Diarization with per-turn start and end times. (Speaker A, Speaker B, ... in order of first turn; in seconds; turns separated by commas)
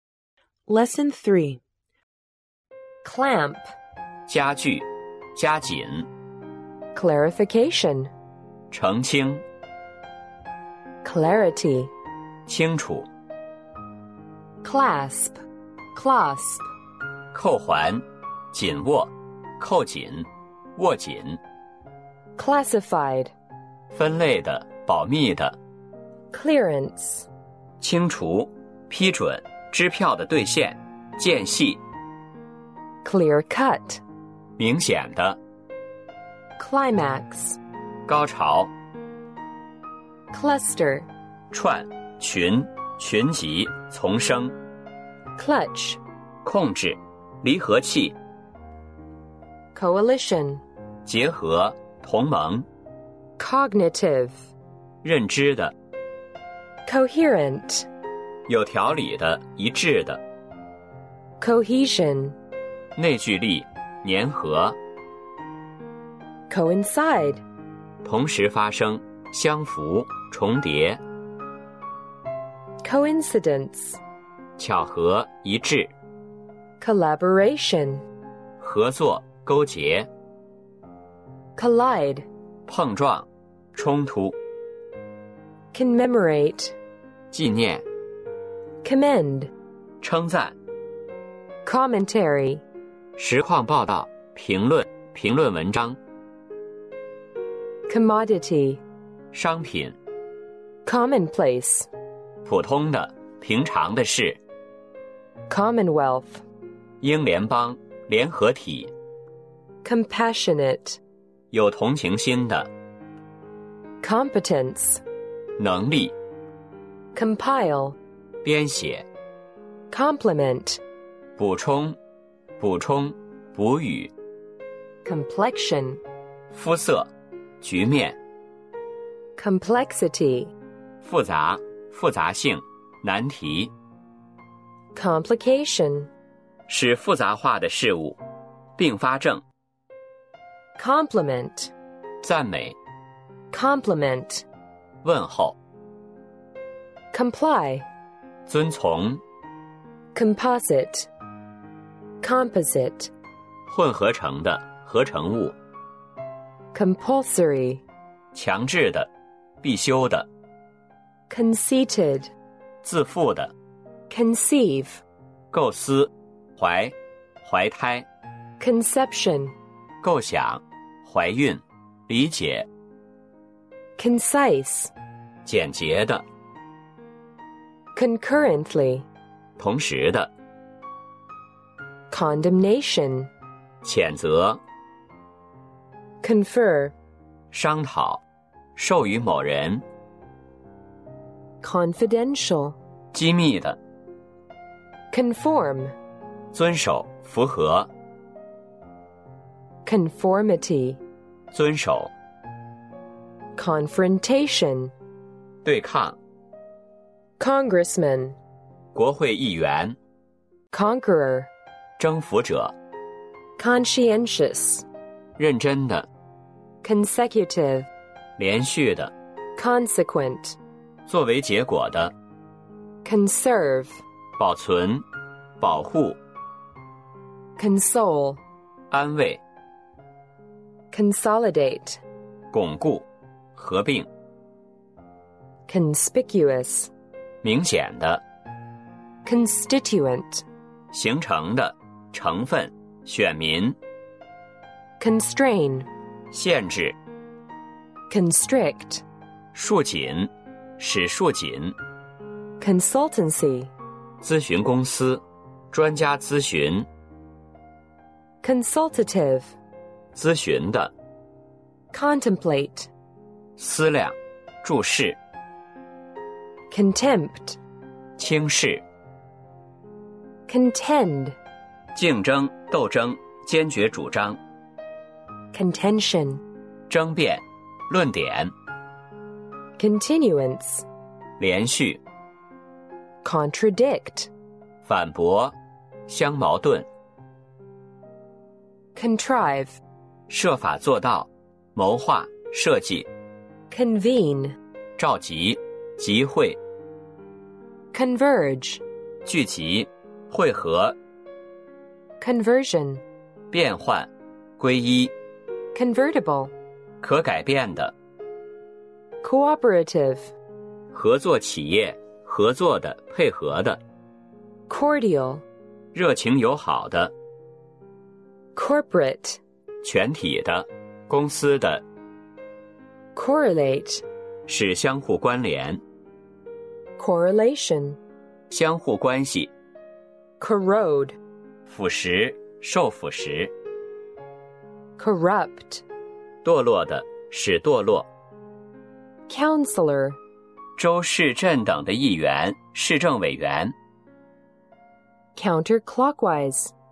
Speaker A: 0.7-1.6, Speaker A: 3.0-3.7, Speaker B: 4.3-6.1, Speaker A: 6.9-8.1, Speaker B: 8.7-9.4, Speaker A: 11.0-11.9, Speaker B: 12.5-13.1, Speaker A: 14.6-15.4, Speaker A: 15.9-16.6, Speaker B: 17.3-21.4, Speaker A: 22.4-23.3, Speaker B: 23.9-25.6, Speaker A: 26.3-27.3, Speaker B: 27.8-31.8, Speaker A: 33.0-34.0, Speaker B: 34.6-35.4, Speaker A: 36.6-37.6, Speaker B: 38.1-38.7, Speaker A: 40.3-41.1, Speaker B: 41.5-44.5, Speaker A: 45.4-46.0, Speaker B: 46.4-48.1, Speaker A: 49.7-50.6, Speaker B: 51.0-52.7, Speaker A: 53.4-54.4, Speaker B: 55.0-55.7, Speaker A: 56.9-57.9, Speaker B: 58.5-60.2, Speaker A: 61.4-62.4, Speaker B: 63.0-64.8, Speaker A: 66.5-67.4, Speaker B: 68.0-71.0, Speaker A: 72.8-74.0, Speaker B: 74.6-75.9, Speaker A: 76.8-78.0, Speaker B: 78.6-80.1, Speaker A: 81.5-82.3, Speaker B: 82.7-84.3, Speaker A: 85.7-86.7, Speaker B: 87.3-87.8, Speaker A: 88.8-89.5, Speaker B: 90.0-90.5, Speaker A: 91.6-92.6, Speaker B: 93.2-96.0, Speaker A: 97.9-98.8, Speaker B: 99.3-100.0, Speaker A: 100.8-101.9, Speaker B: 102.4-104.4, Speaker A: 105.5-106.4, Speaker B: 107.0-108.9, Speaker A: 109.8-111.0, Speaker B: 111.5-112.7, Speaker A: 114.0-115.0, Speaker B: 115.6-116.1, Speaker A: 117.1-118.0, Speaker B: 118.4-119.0, Speaker A: 119.9-120.8, Speaker B: 121.4-122.0, Speaker B: 122.6-124.1, Speaker A: 125.0-126.0, Speaker B: 126.5-127.1, Speaker B: 127.6-128.2, Speaker A: 129.3-130.5, Speaker B: 131.0-133.7, Speaker A: 134.9-136.1, Speaker B: 136.7-138.2, Speaker B: 138.8-139.4, Speaker A: 140.8-141.7, Speaker B: 142.2-142.8, Speaker A: 143.5-144.4, Speaker B: 145.0-145.6, Speaker A: 147.1-147.9, Speaker B: 148.5-149.2, Speaker A: 150.1-151.1, Speaker A: 152.2-153.1, Speaker B: 153.7-155.5, Speaker A: 156.7-157.8, Speaker B: 158.3-159.1, Speaker B: 159.6-160.3, Speaker A: 161.3-162.3, Speaker B: 162.8-163.5, Speaker A: 164.1-165.0, Speaker B: 165.5-168.1, Speaker A: 168.6-169.5, Speaker B: 170.0-172.7, Speaker A: 174.0-174.9, Speaker B: 175.4-176.2, Speaker A: 177.9-179.1, Speaker B: 179.6-180.3, Speaker A: 182.1-183.3, Speaker B: 183.8-184.6, Speaker A: 186.2-186.9, Speaker B: 187.5-188.2, Speaker B: 188.8-189.8, Speaker A: 191.6-192.8, Speaker B: 193.1-193.8, Speaker A: 195.1-195.9, Speaker B: 196.5-197.9, Speaker A: 199.8-201.0, Speaker B: 201.5-202.1, Speaker A: 203.6-204.9, Speaker B: 205.6-206.2, Speaker A: 207.4-208.4, Speaker B: 208.9-210.0, Speaker A: 210.7-211.5, Speaker B: 212.0-212.7, Speaker A: 213.6-214.8, Speaker B: 215.4-216.1, Speaker A: 216.8-217.9, Speaker B: 218.4-219.1, Speaker A: 219.6-220.6, Speaker B: 221.1-222.1, Speaker A: 223.0-224.0, Speaker B: 224.4-225.0, Speaker B: 225.6-226.2, Speaker A: 227.6-228.4, Speaker B: 228.9-229.4, Speaker A: 230.9-232.0, Speaker B: 232.5-234.1, Speaker A: 235.7-236.9, Speaker B: 237.4-238.2, Speaker A: 239.2-240.4, Speaker B: 240.9-243.8, Speaker A: 245.0-245.9, Speaker B: 246.3-246.9, Speaker A: 248.1-249.0, Speaker B: 249.5-251.8, Speaker A: 252.6-253.7, Speaker B: 254.2-256.9, Speaker A: 258.4-259.5, Speaker B: 260.1-260.9, Speaker A: 261.9-262.9, Speaker B: 263.6-265.2, Speaker A: 266.7-267.6, Speaker B: 268.2-268.8, Speaker A: 270.5-271.4, Speaker B: 271.9-274.4, Speaker A: 275.5-276.4, Speaker B: 276.9-278.5, Speaker A: 279.8-280.8, Speaker B: 281.4-282.0, Speaker A: 283.2-284.3, Speaker B: 284.8-285.5, Speaker B: 286.1-286.9, Speaker A: 288.9-289.8, Speaker B: 290.3-293.1, Speaker A: 293.7-294.6, Speaker B: 295.0-296.6, Speaker A: 297.9-298.8, Speaker B: 299.2-300.9, Speaker A: 302.2-303.0, Speaker B: 303.5-305.1, Speaker A: 305.7-306.5, Speaker B: 307.0-307.9, Speaker A: 309.2-310.3, Speaker B: 310.9-313.8, Speaker A: 314.7-315.4, Speaker B: 315.9-317.1, Speaker A: 318.5-319.4, Speaker B: 319.8-321.8, Speaker A: 323.1-324.0, Speaker B: 324.5-325.8, Speaker A: 327.0-328.0, Speaker B: 328.5-329.5, Speaker A: 330.4-331.2, Speaker B: 331.7-333.5, Speaker A: 335.0-335.8, Speaker B: 336.4-338.1, Speaker A: 339.3-340.2, Speaker B: 340.8-343.7, Speaker A: 345.3-346.7